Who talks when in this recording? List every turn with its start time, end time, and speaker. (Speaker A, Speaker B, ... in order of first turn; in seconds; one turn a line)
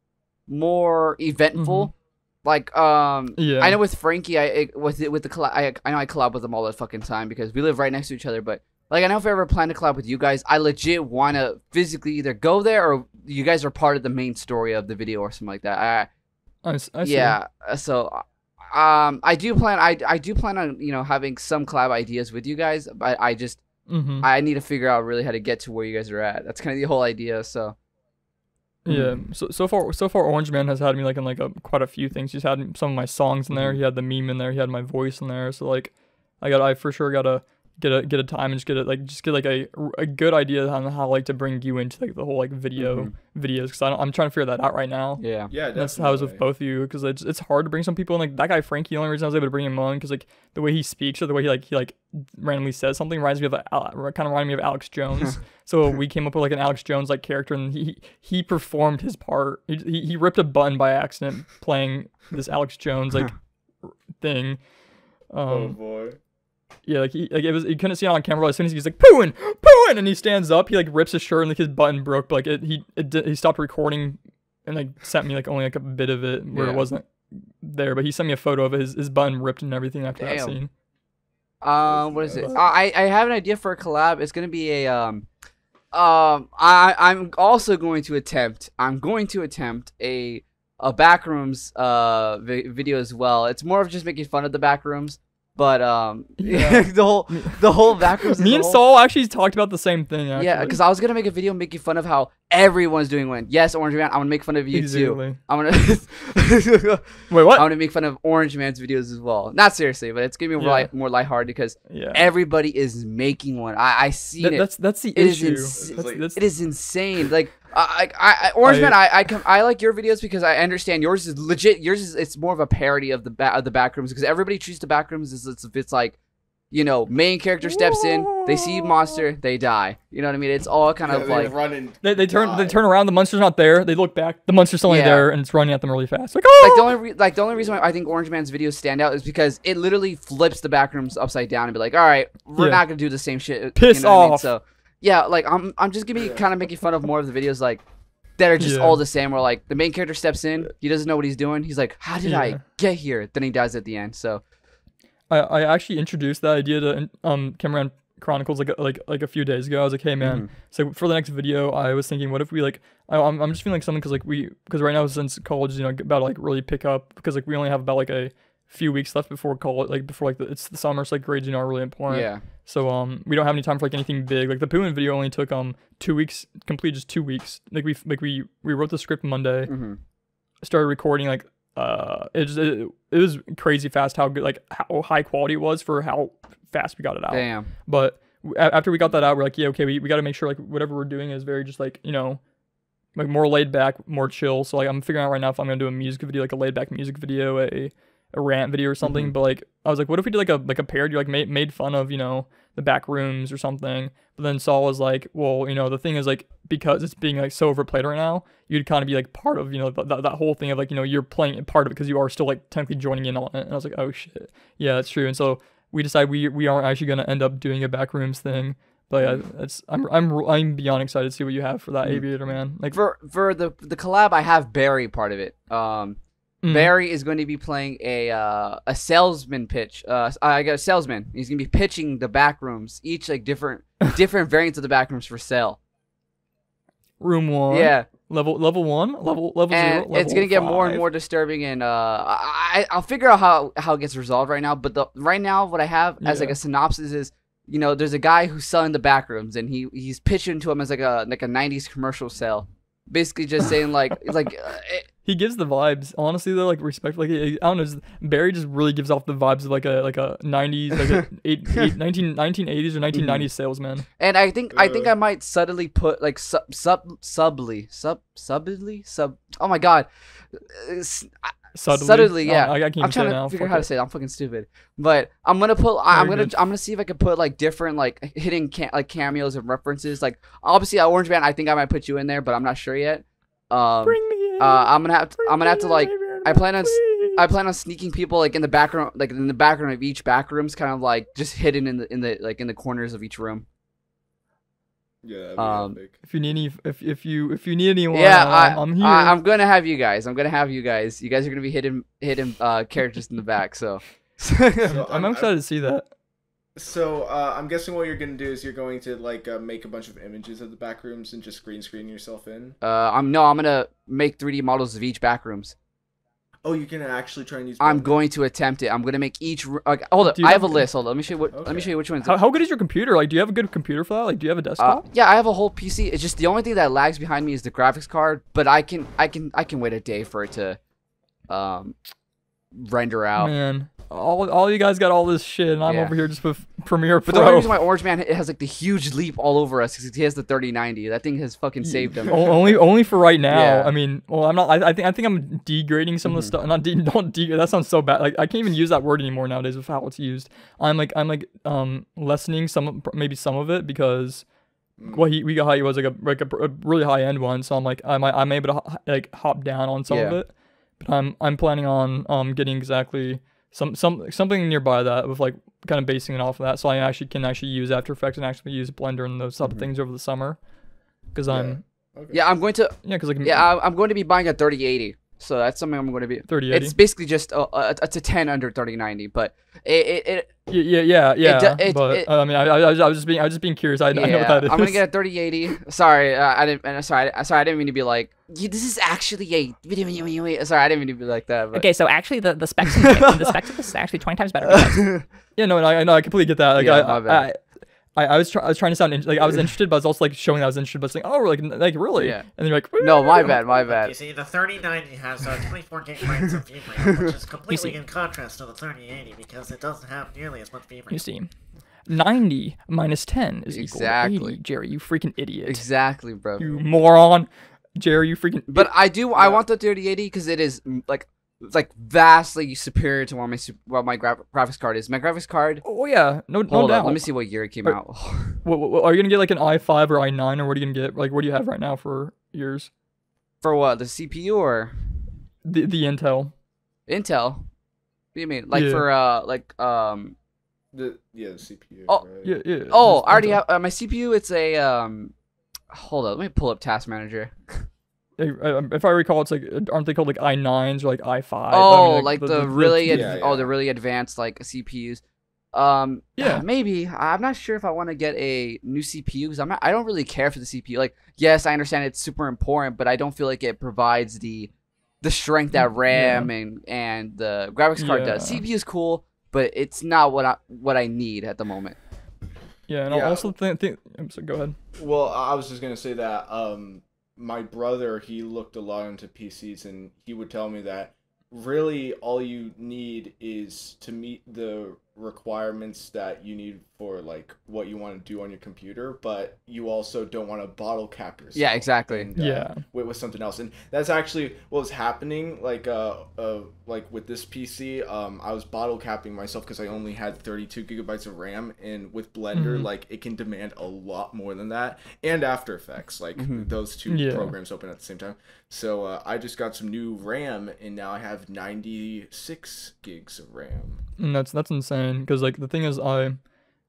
Speaker A: 0.5-16.1
Speaker B: 1.6-1.9
Speaker B: 3.4-3.8
Speaker B: 16.6-17.4
Speaker A: 17.0-23.6
Speaker B: 23.9-24.3
Speaker A: 24.2-27.8
Speaker B: 28.9-63.4
Speaker A: 28.9-29.2
Speaker A: 33.5-33.8
Speaker A: 42.8-43.1
Speaker A: 45.2-45.5
Speaker C: 45.5-46.4
Speaker B: 64.2-64.6
Speaker B: 65.3-65.8
Speaker C: 65.5-66.2
Speaker B: 66.9-77.1
Speaker A: 76.5-76.9
Speaker B: 77.6-80.7
Speaker A: 80.2-80.6
Speaker A: 81.6-85.3
Speaker C: 81.9-82.5
Speaker A: 85.9-98.8
Speaker B: 96.4-97.6
Speaker B: 98.2-100.8
Speaker A: 100.4-126.2
Speaker B: 104.7-105.4
Speaker B: 107.3-107.7
Speaker B: 110.6-110.9
Speaker B: 111.9-112.3
Speaker B: 114.4-116.4
Speaker C: 115.8-116.3
Speaker B: 118.6-119.0
Speaker A: 126.7-131.6
Speaker B: 127.6-129.2
Speaker C: 131.0-132.8
Speaker B: 132.0-137.0
Speaker A: 134.9-135.3
Speaker A: 136.6-147.8
Speaker B: 142.6-142.8
Speaker B: 143.8-144.5
Speaker C: 146.2-146.5
Speaker A: 148.4-154.4
Speaker B: 148.6-149.0
Speaker B: 152.2-152.6
Speaker B: 155.3-179.7
Speaker A: 160.2-160.5
Speaker A: 172.1-172.4
Speaker A: 179.7-180.0
Speaker B: 180.6-192.4
Speaker A: 187.3-187.7
Speaker B: 193.2-223.0
Speaker A: 222.9-235.8
Speaker B: 226.6-226.9
Speaker B: 237.2-241.1
Speaker A: 237.7-238.1
Speaker A: 239.7-255.1
Speaker B: 246.2-246.6
Speaker B: 255.2-264.1
Speaker A: 263.1-263.5
Speaker A: 264.2-293.7
Speaker C: 264.7-265.1
Speaker B: 271.7-273.9
Speaker B: 276.1-276.6
Speaker B: 284.1-287.4
Speaker C: 295.2-296.2
Speaker A: 295.6-296.0
Speaker B: 296.3-299.4
Speaker A: 298.1-304.9
Speaker B: 304.8-306.1
Speaker C: 304.9-305.5
Speaker C: 306.8-312.8
Speaker A: 312.8-315.7
Speaker C: 316.6-318.2
Speaker A: 317.8-322.4
Speaker B: 320.3-320.9
Speaker C: 321.5-321.9
Speaker B: 322.2-325.0
Speaker A: 324.8-330.8
Speaker A: 331.5-331.9
Speaker A: 332.7-333.5
Speaker B: 333.4-337.8
Speaker A: 335.9-336.1
Speaker A: 337.3-342.6
Speaker B: 341.8-354.4
Speaker A: 343.5-343.9
Speaker A: 346.2-346.6
Speaker C: 355.0-355.3
Speaker B: 355.1-370.6
Speaker A: 360.1-360.4
Speaker B: 371.3-371.8
Speaker C: 371.5-372.4
Speaker A: 372.3-380.5
Speaker B: 373.0-373.7
Speaker B: 376.5-376.9
Speaker B: 380.7-385.0
Speaker A: 381.4-382.3
Speaker A: 384.1-391.9
Speaker D: 391.7-395.3
Speaker A: 392.8-393.5
Speaker A: 394.7-395.2
Speaker B: 395.6-403.6
Speaker A: 396.8-397.4
Speaker A: 402.1-402.5
Speaker A: 403.0-404.1
Speaker E: 403.7-411.2
Speaker B: 407.7-407.9
Speaker B: 411.1-411.5
Speaker B: 412.1-415.8
Speaker A: 413.7-414.6
Speaker A: 415.6-416.6
Speaker B: 416.6-418.9
Speaker A: 418.7-425.8
Speaker C: 419.4-419.6
Speaker B: 425.9-427.3
Speaker A: 426.7-428.6
Speaker B: 427.8-432.9
Speaker A: 433.6-435.2
Speaker B: 435.6-436.5
Speaker A: 437.1-437.7
Speaker A: 438.3-440.4
Speaker B: 438.7-439.1
Speaker C: 440.9-442.6
Speaker B: 442.4-443.6
Speaker A: 442.9-445.3
Speaker A: 445.9-447.9
Speaker B: 448.4-453.3
Speaker A: 451.7-455.2
Speaker C: 453.1-453.7
Speaker A: 455.7-472.0
Speaker B: 456.4-456.6
Speaker B: 466.1-466.5
Speaker B: 468.0-468.6
Speaker B: 472.9-474.8
Speaker C: 473.1-473.5
Speaker C: 474.9-514.0
Speaker A: 491.6-492.3
Speaker B: 492.4-492.8
Speaker B: 502.5-502.9
Speaker A: 506.4-506.7
Speaker B: 507.1-507.5
Speaker B: 514.2-516.4